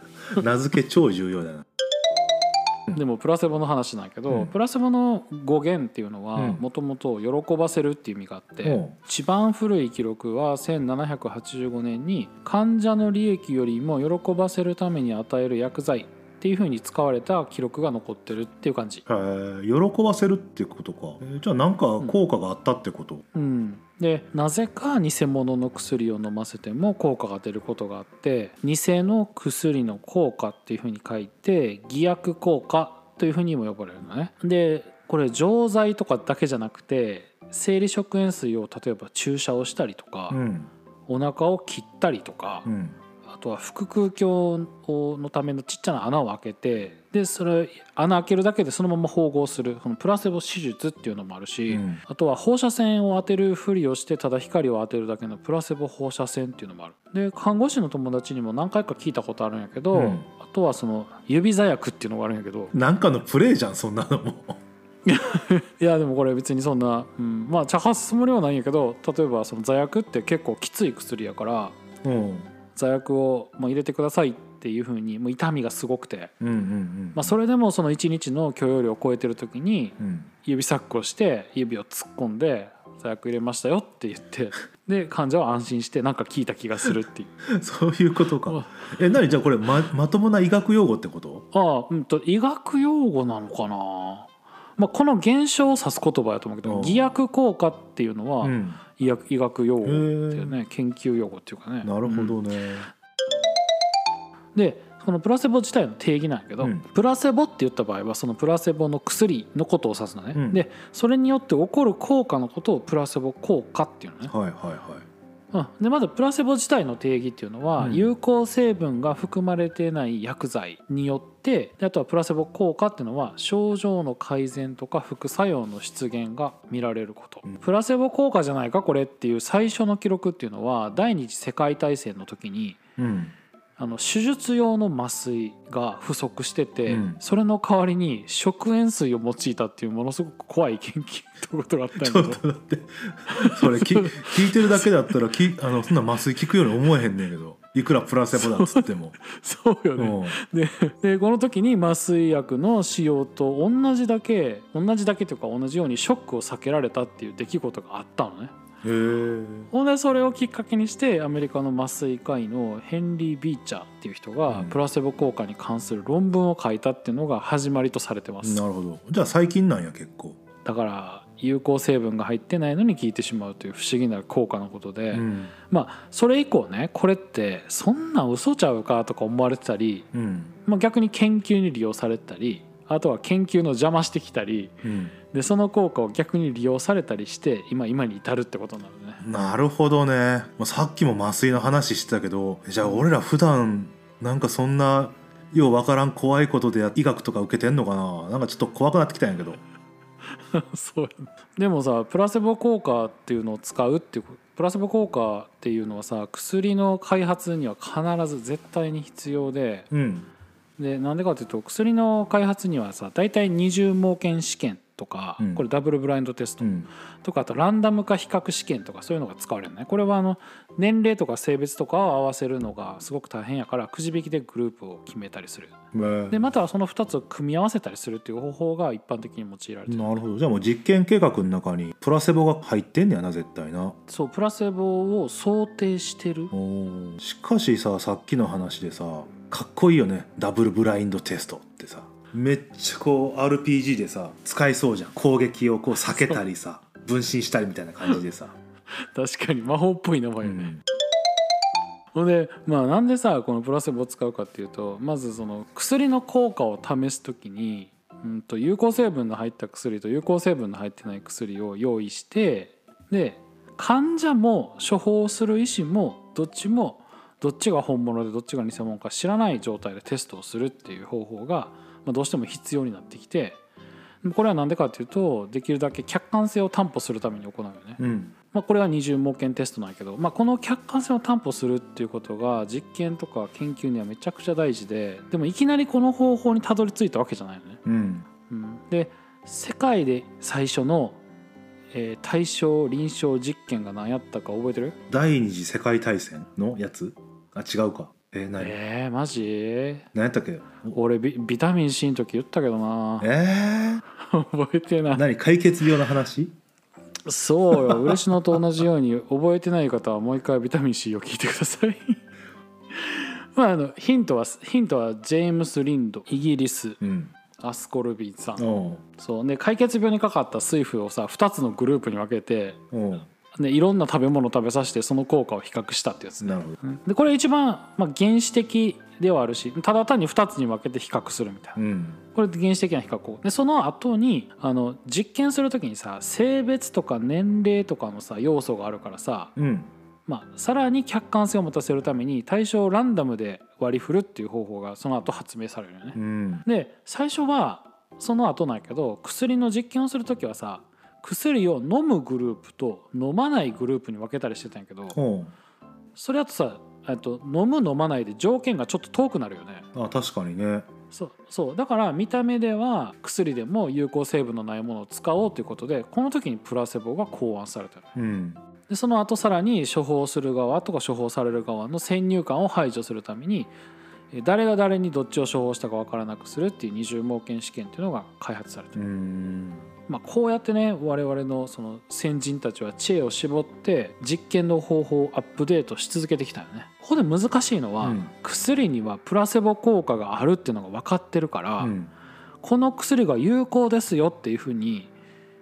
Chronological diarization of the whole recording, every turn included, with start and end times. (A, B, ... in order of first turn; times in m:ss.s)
0:00.3-0:01.7 A
0:02.9-0:19.0 B
0:06.4-0:06.6 A
0:08.6-0:08.9 A
0:19.0-0:23.2 A
0:23.3-0:40.4 B
0:40.3-0:40.7 A
0:41.1-0:42.7 B
0:42.6-0:43.0 A
0:43.3-1:02.7 B
0:51.7-0:52.0 A
0:59.9-1:00.2 A
1:02.7-1:04.6 A
1:05.0-1:11.7 B
1:12.0-1:12.5 A
1:12.7-1:16.3 B
1:16.4-1:17.3 A
1:17.1-1:27.3 B
1:20.0-1:20.3 A
1:27.5-1:31.4 A
1:28.4-1:28.9 B
1:31.5-1:42.4 B
1:36.6-1:37.0 A
1:38.4-1:38.8 A
1:39.8-1:40.5 A
1:41.8-1:42.9 A
1:44.5-1:54.3 B
1:50.3-1:50.6 A
1:54.3-1:55.0 A
1:55.5-2:12.8 B
1:57.8-1:58.1 A
2:13.0-2:13.3 A
2:13.8-2:22.4 B
2:16.9-2:17.2 A
2:22.0-2:29.2 A
2:23.3-2:24.8 B
2:28.4-2:38.5 B
2:30.0-2:30.4 A
2:38.8-2:39.7 A
2:39.7-2:48.6 B
2:44.5-2:44.8 A
2:48.4-2:50.4 A
2:50.6-3:00.1 B
2:55.1-2:55.5 A
3:00.1-3:00.5 A
3:00.6-3:04.8 B
3:04.8-3:05.1 A
3:05.3-3:09.2 B
3:09.2-3:19.6 A
3:20.5-3:29.9 B
3:29.9-3:30.3 A
3:30.8-3:36.7 B
3:35.4-3:35.6 A
3:36.6-3:36.9 A
3:37.2-3:45.7 B
3:45.9-3:46.4 A
3:46.3-3:50.2 B
3:49.9-3:54.0 A
3:54.1-3:56.5 B
3:56.5-4:08.5 A
4:06.0-4:06.4 B
4:09.0-4:10.7 B
4:10.4-4:10.8 A
4:12.1-4:33.6 B
4:34.2-4:38.0 B
4:38.0-4:38.3 A
4:38.5-4:47.8 B
4:47.8-4:48.3 A
4:48.5-4:51.2 B
4:51.9-4:55.0 B
4:55.1-4:58.7 A
4:58.6-5:00.1 B
5:00.1-5:01.0 A
5:00.9-5:03.3 B
5:03.2-5:04.0 A
5:04.2-5:05.2 B
5:05.1-5:06.6 A
5:07.2-5:12.2 B
5:07.7-5:08.6 A
5:12.9-5:17.0 B
5:17.0-5:17.3 A
5:17.6-5:22.8 B
5:18.6-5:19.0 A
5:22.9-5:23.3 A
5:23.5-5:31.8 B
5:26.4-5:26.8 A
5:31.8-5:32.2 A
5:32.3-5:39.5 B
5:39.6-5:39.9 A
5:40.3-5:55.2 B
5:46.2-5:46.6 A
5:55.1-5:55.5 A
5:56.2-5:59.9 B
5:59.9-6:00.9 A
6:01.1-6:08.1 B
6:08.2-6:08.6 A
6:08.9-6:13.7 B
6:14.3-6:19.0 B
6:19.0-6:19.9 A
6:20.1-6:31.9 B
6:28.0-6:28.3 A
6:31.8-6:32.1 A
6:32.6-6:35.1 B